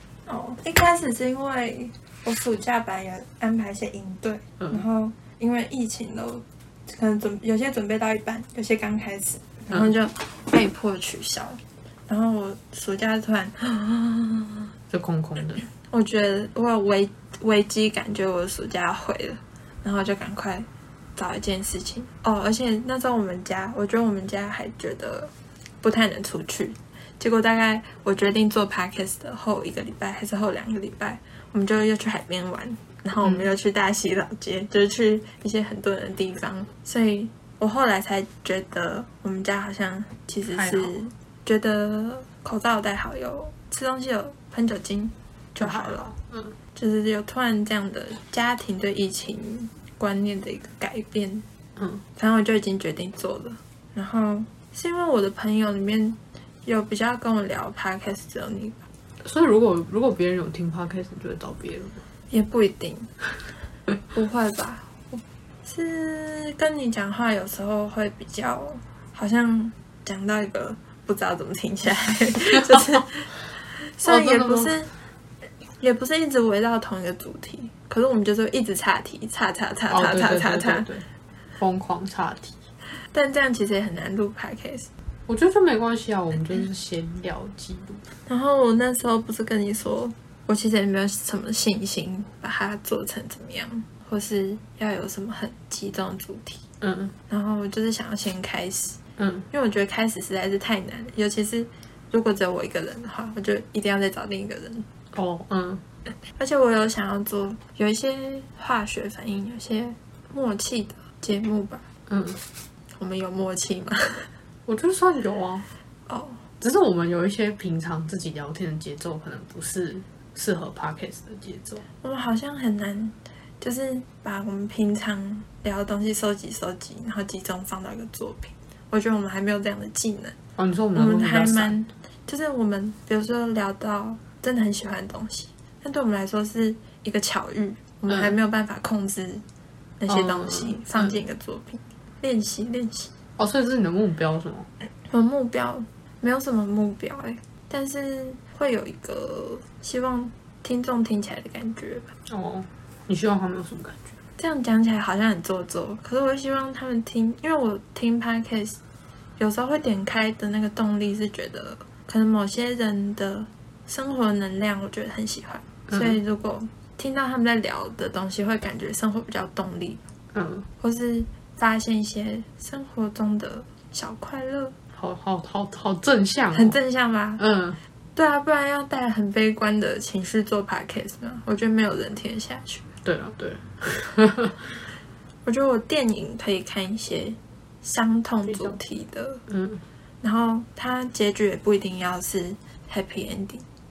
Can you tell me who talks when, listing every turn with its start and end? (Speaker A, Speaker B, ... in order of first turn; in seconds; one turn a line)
Speaker A: 0.3-14.7
Speaker B: 14.9-15.6
Speaker A: 15.9-46.1
Speaker B: 33.2-33.5
Speaker B: 40.5-40.9
Speaker B: 45.5-46.5
Speaker A: 46.7-51.5
Speaker A: 52.1-58.8
Speaker B: 59.2-62.0
Speaker A: 62.3-63.1
Speaker A: 64.1-74.9
Speaker B: 74.0-74.7
Speaker A: 75.8-80.9
Speaker B: 79.9-81.0
Speaker B: 81.6-82.5
Speaker A: 83.1-84.9
Speaker B: 85.3-88.0
Speaker A: 88.3-96.6
Speaker B: 96.8-97.1
Speaker A: 97.3-99.0
Speaker B: 99.2-99.5
Speaker A: 99.5-104.9
Speaker B: 105.1-105.8
Speaker A: 106.4-111.8
Speaker B: 112.1-112.4
Speaker A: 112.9-114.3
Speaker B: 114.7-115.7
Speaker A: 116.1-116.4
Speaker B: 116.6-121.8
Speaker A: 122.0-130.3
Speaker B: 130.6-131.7
Speaker A: 130.9-139.4
Speaker A: 140.0-143.1
Speaker B: 140.1-141.2
Speaker B: 143.4-144.7
Speaker A: 145.1-152.1
Speaker B: 152.3-154.1
Speaker A: 154.4-158.8
Speaker A: 159.4-170.0
Speaker B: 165.9-166.2
Speaker B: 170.3-170.7
Speaker A: 170.8-174.7
Speaker B: 174.9-176.8
Speaker A: 176.5-177.4
Speaker B: 177.4-177.8
Speaker A: 178.2-182.8
Speaker B: 183.0-184.6
Speaker A: 185.4-189.4
Speaker B: 188.5-188.8
Speaker B: 189.5-189.8
Speaker A: 190.2-193.6